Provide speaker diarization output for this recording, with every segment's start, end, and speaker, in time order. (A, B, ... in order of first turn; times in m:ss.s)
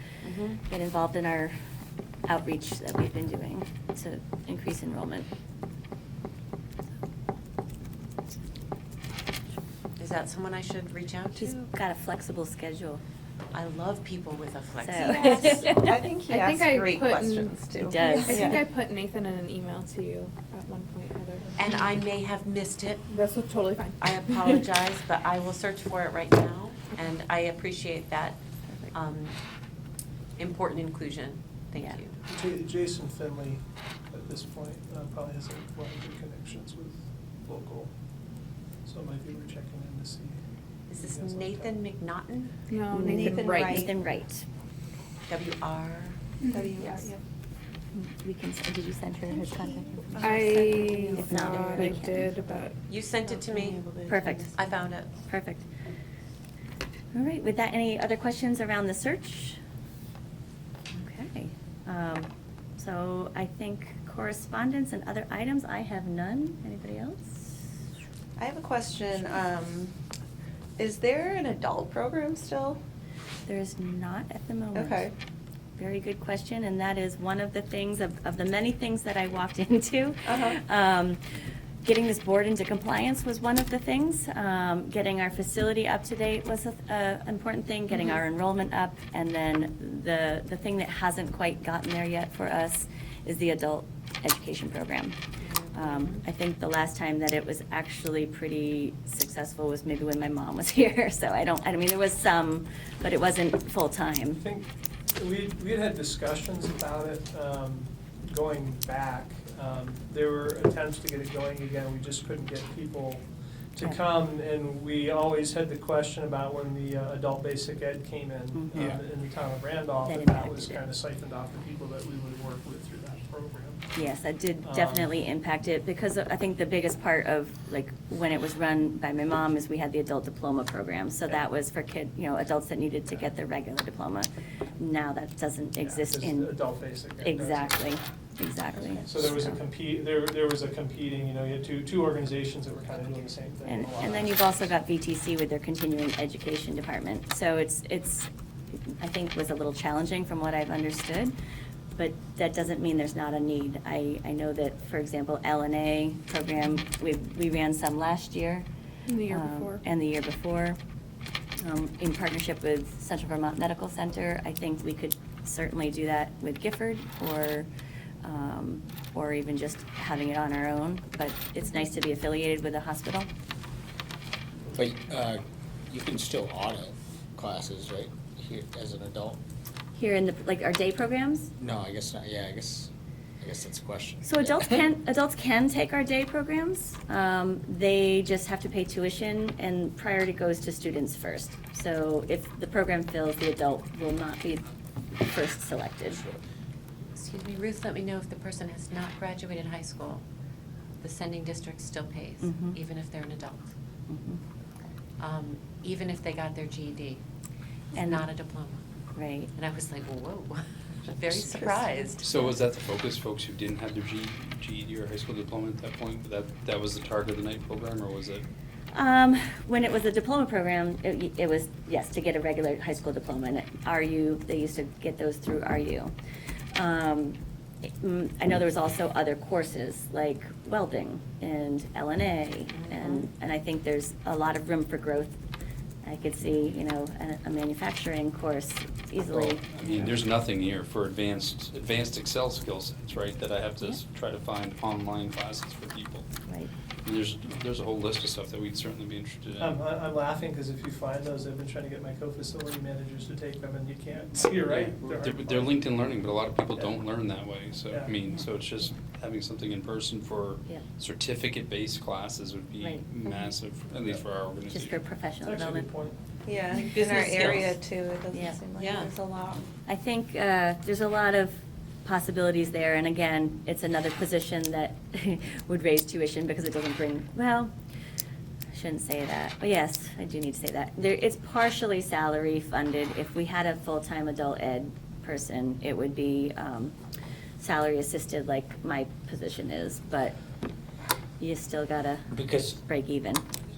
0:00.2-0:00.6 A
0:00.6-0:01.5 B
0:02.3-0:05.3 B
0:10.0-0:11.5 A
0:11.3-0:13.0 B
0:13.5-0:15.2 A
0:14.8-0:16.0 B
0:15.0-0:18.6 C
0:15.0-0:21.6 D
0:17.8-0:18.6 B
0:21.6-0:23.1 A
0:23.1-0:24.6 D
0:24.0-0:28.4 A
0:28.9-0:29.3 A
0:30.4-0:32.1 A
0:32.3-0:37.9 E
0:38.8-0:40.4 E
0:40.9-0:42.6 A
0:40.9-0:41.8 E
0:42.7-0:43.9 D
0:42.9-0:44.4 B
0:42.9-0:43.9 C
0:45.3-0:46.3 A
0:46.4-0:47.2 C
0:47.9-0:52.3 B
0:49.3-0:52.3 C
0:50.2-0:52.8 D
0:52.9-0:53.8 A
0:53.2-0:54.6 C
0:54.0-0:54.5 B
0:54.5-0:55.1 A
0:55.3-0:55.7 B
0:57.1-0:59.6 B
1:00.9-1:07.6 B
1:08.4-1:09.9 C
1:10.8-1:12.8 C
1:13.5-1:15.1 B
1:14.7-1:15.1 C
1:15.8-1:21.2 B
1:20.2-1:20.6 C
1:21.8-1:35.2 B
1:35.6-1:36.1 A
1:35.7-1:44.4 B
1:44.4-2:03.9 E
1:58.5-1:58.9 B
2:00.0-2:00.8 B
2:04.0-2:16.5 B
2:04.6-2:05.1 E
2:15.8-2:17.9 E
2:17.2-2:19.6 B
2:19.0-2:24.6 E
2:23.6-2:28.3 B
2:28.9-2:31.3 B
2:32.0-2:38.6 B
2:39.1-2:39.8 D
2:39.2-2:40.8 B
2:41.6-2:47.7 B
2:48.2-2:53.3 B
2:54.7-2:59.4 F
2:59.9-3:01.5 B
3:01.6-3:04.8 F
3:04.2-3:14.6 B
3:15.2-3:16.2 B
3:17.2-3:20.2 A
3:21.0-3:23.7 A
3:22.4-3:22.8 B
3:24.1-3:24.4 B
3:25.2-3:27.2 A
3:27.9-3:28.8 A
3:27.9-3:28.2 B
3:29.1-3:29.5 B
3:29.5-3:32.3 A
3:31.3-3:31.9 C
3:32.2-3:38.4 G
3:38.9-3:46.1 B
3:46.7-3:47.4 B
3:48.0-3:55.4 B
3:52.7-3:53.3 A
3:56.0-4:00.2 B
3:59.3-4:06.3 G
4:06.4-4:06.7 B
4:07.0-4:09.8 G
4:09.6-4:15.9 E
4:14.6-4:25.0 G
4:16.8-4:17.0 E
4:17.9-4:18.2 E
4:22.8-4:23.0 B
4:24.0-4:24.2 E
4:24.7-4:25.9 B
4:25.4-4:26.2 E
4:26.4-4:29.7 C
4:26.8-4:27.7 A
4:28.3-4:28.6 B
4:28.8-4:29.1 A
4:29.8-4:37.7 B
4:38.7-4:46.9 B
4:47.6-4:50.4 B
4:51.4-4:53.4 B
4:52.3-4:52.8 F